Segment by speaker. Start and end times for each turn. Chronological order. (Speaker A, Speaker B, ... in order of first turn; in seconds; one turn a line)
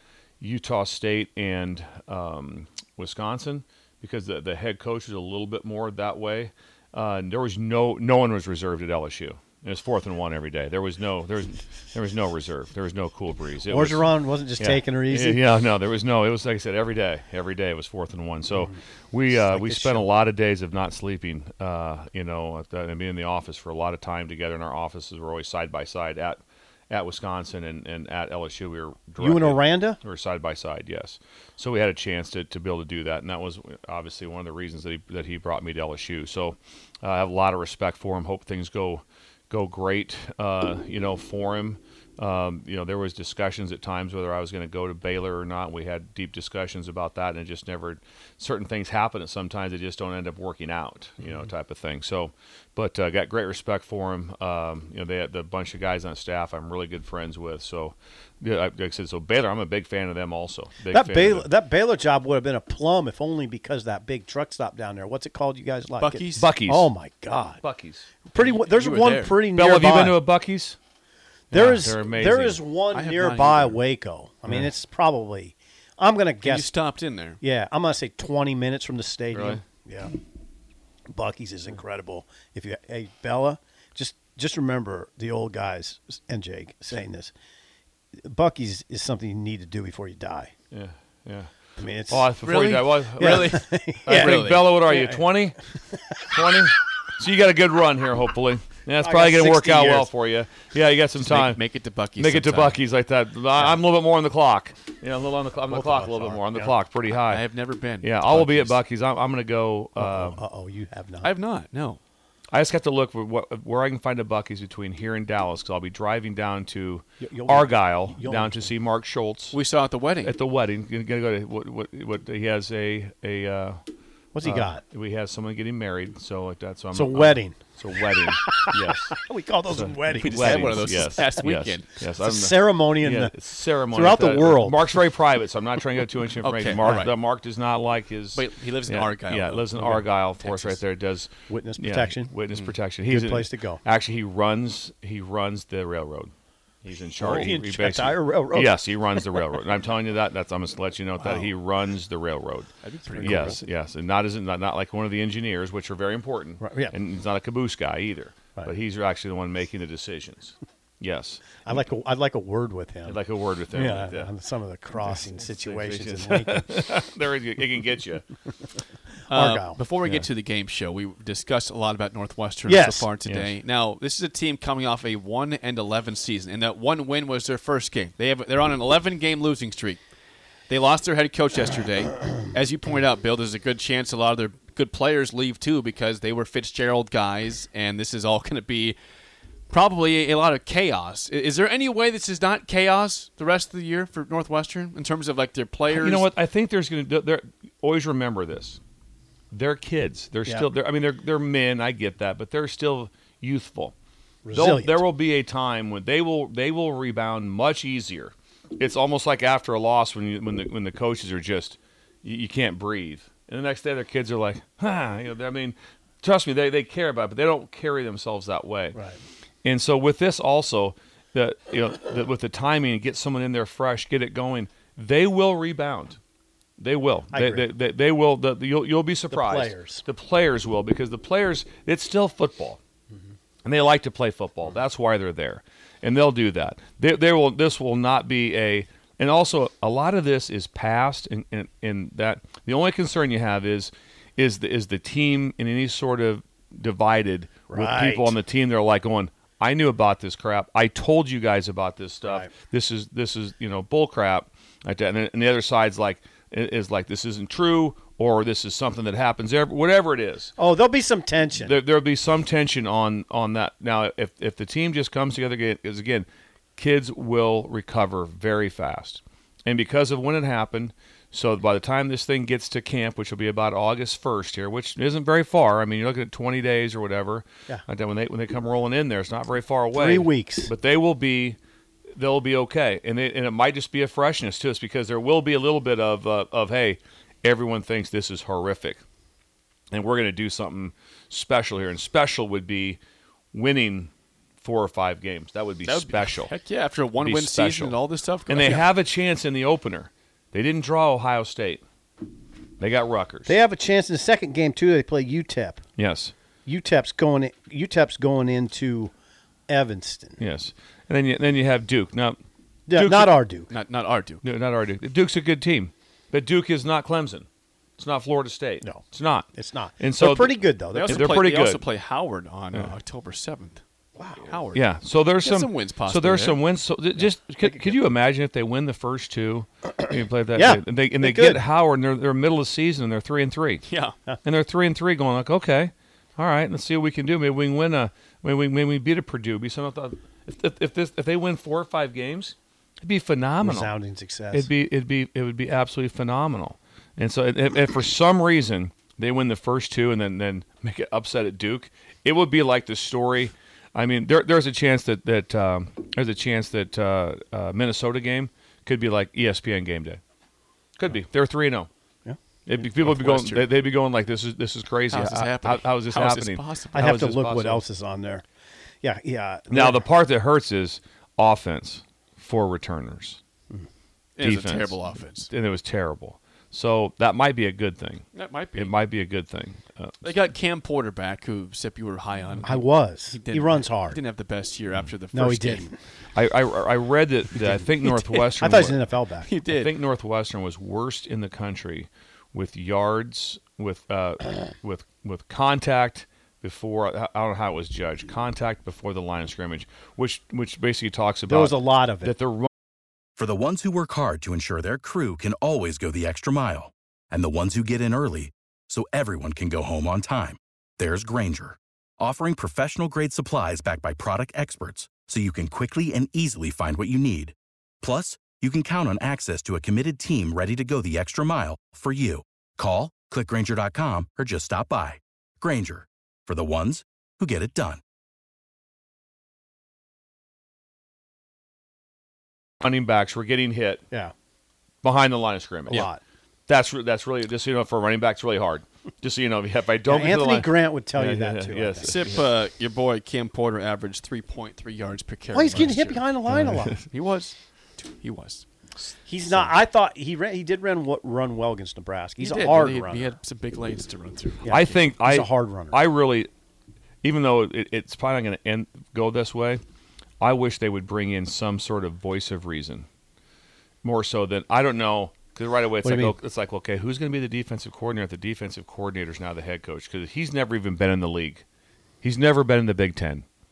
Speaker A: 0.4-61.5
Speaker B: 13.7-15.4
Speaker B: 19.3-20.1
Speaker B: 29.2-30.0
Speaker B: 60.9-67.6
Speaker C: 66.0-66.5
Speaker A: 66.4-66.9
Speaker A: 67.6-68.1
Speaker B: 68.2-70.2
Speaker C: 68.3-69.4
Speaker A: 69.5-70.8
Speaker B: 71.5-76.7
Speaker C: 71.5-71.8
Speaker A: 71.7-72.6
Speaker C: 72.9-73.8
Speaker C: 76.4-77.4
Speaker B: 77.4-80.1
Speaker A: 79.3-79.6
Speaker B: 81.1-87.3
Speaker B: 88.2-90.5
Speaker A: 90.7-91.5
Speaker B: 91.8-92.3
Speaker A: 92.1-95.6
Speaker C: 92.4-94.7
Speaker B: 93.1-95.5
Speaker A: 96.2-101.6
Speaker B: 99.0-100.1
Speaker C: 101.2-102.8
Speaker A: 102.2-107.4
Speaker B: 105.7-106.7
Speaker C: 107.1-108.8
Speaker A: 108.0-110.4
Speaker B: 110.0-111.3
Speaker C: 111.2-112.0
Speaker A: 112.5-119.6
Speaker B: 117.2-118.7
Speaker C: 119.5-120.3
Speaker A: 120.2-123.8
Speaker B: 124.3-124.8
Speaker A: 124.4-146.3
Speaker B: 126.9-127.6
Speaker B: 128.2-131.5
Speaker C: 130.1-132.0
Speaker B: 132.2-133.3
Speaker B: 133.9-134.9
Speaker C: 136.4-137.1
Speaker C: 138.3-140.8
Speaker B: 141.5-142.3
Speaker C: 142.5-142.8
Speaker B: 143.1-143.8
Speaker A: 146.8-152.7
Speaker B: 147.2-149.5
Speaker B: 151.2-151.5
Speaker C: 152.8-153.4
Speaker B: 153.1-153.6
Speaker A: 153.2-161.6
Speaker B: 156.6-157.0
Speaker B: 161.6-163.2
Speaker A: 163.1-164.3
Speaker B: 163.7-166.7
Speaker A: 165.0-168.3
Speaker C: 169.3-180.0
Speaker B: 169.3-169.8
Speaker B: 172.6-173.1
Speaker A: 173.2-173.6
Speaker C: 180.7-189.0
Speaker C: 189.7-196.3
Speaker A: 195.9-198.8
Speaker A: 199.5-203.9
Speaker B: 204.4-205.0
Speaker A: 204.5-219.0
Speaker B: 218.9-219.2
Speaker A: 219.6-226.2
Speaker A: 226.8-232.8
Speaker B: 227.3-227.6
Speaker B: 229.3-230.1
Speaker A: 233.6-260.5
Speaker B: 247.7-248.3
Speaker B: 252.2-252.5
Speaker B: 260.6-261.7
Speaker A: 261.6-281.6
Speaker B: 279.9-280.7
Speaker A: 282.1-289.0
Speaker A: 289.9-293.0
Speaker A: 293.5-294.1
Speaker A: 294.6-296.5
Speaker C: 295.8-298.9
Speaker A: 297.2-301.8
Speaker A: 302.8-303.6
Speaker B: 303.4-305.8
Speaker A: 306.0-306.3
Speaker B: 306.6-309.1
Speaker B: 309.7-310.4
Speaker A: 310.4-312.4
Speaker B: 312.9-313.7
Speaker A: 312.9-313.4
Speaker C: 313.7-314.4
Speaker A: 314.4-317.5
Speaker A: 318.0-321.9
Speaker B: 318.8-321.4
Speaker C: 320.9-323.8
Speaker B: 324.2-324.6
Speaker C: 324.4-324.8
Speaker A: 324.7-333.9
Speaker C: 325.4-326.6
Speaker B: 327.2-328.0
Speaker B: 330.5-331.6
Speaker C: 333.8-334.1
Speaker A: 334.4-343.9
Speaker B: 343.6-344.7
Speaker A: 344.5-360.2
Speaker A: 361.0-361.9
Speaker A: 362.6-367.8
Speaker C: 362.9-363.7
Speaker C: 365.1-367.0
Speaker B: 366.9-368.4
Speaker B: 369.0-370.1
Speaker A: 369.7-373.4
Speaker C: 374.4-375.5
Speaker A: 374.4-375.0
Speaker A: 375.5-378.2
Speaker C: 378.3-378.9
Speaker A: 378.8-380.4
Speaker C: 380.2-385.9
Speaker B: 382.6-384.2
Speaker B: 385.3-385.9
Speaker A: 386.3-389.0
Speaker B: 387.6-387.9
Speaker C: 388.0-388.4
Speaker B: 388.5-389.5
Speaker C: 389.4-389.9
Speaker A: 389.7-402.7
Speaker B: 401.5-402.3
Speaker D: 403.4-428.0
Speaker A: 432.8-434.0
Speaker A: 435.0-436.1
Speaker B: 435.9-436.2
Speaker A: 436.7-442.5
Speaker B: 440.0-442.5
Speaker C: 442.0-446.3
Speaker B: 445.5-447.1
Speaker A: 446.5-447.0
Speaker C: 447.0-448.6
Speaker A: 449.0-449.6
Speaker B: 449.2-453.4
Speaker C: 452.4-455.2
Speaker B: 454.6-456.0
Speaker A: 454.7-456.5
Speaker A: 457.2-459.8
Speaker A: 460.4-463.1
Speaker A: 464.0-471.6
Speaker B: 466.0-466.4
Speaker A: 472.2-473.4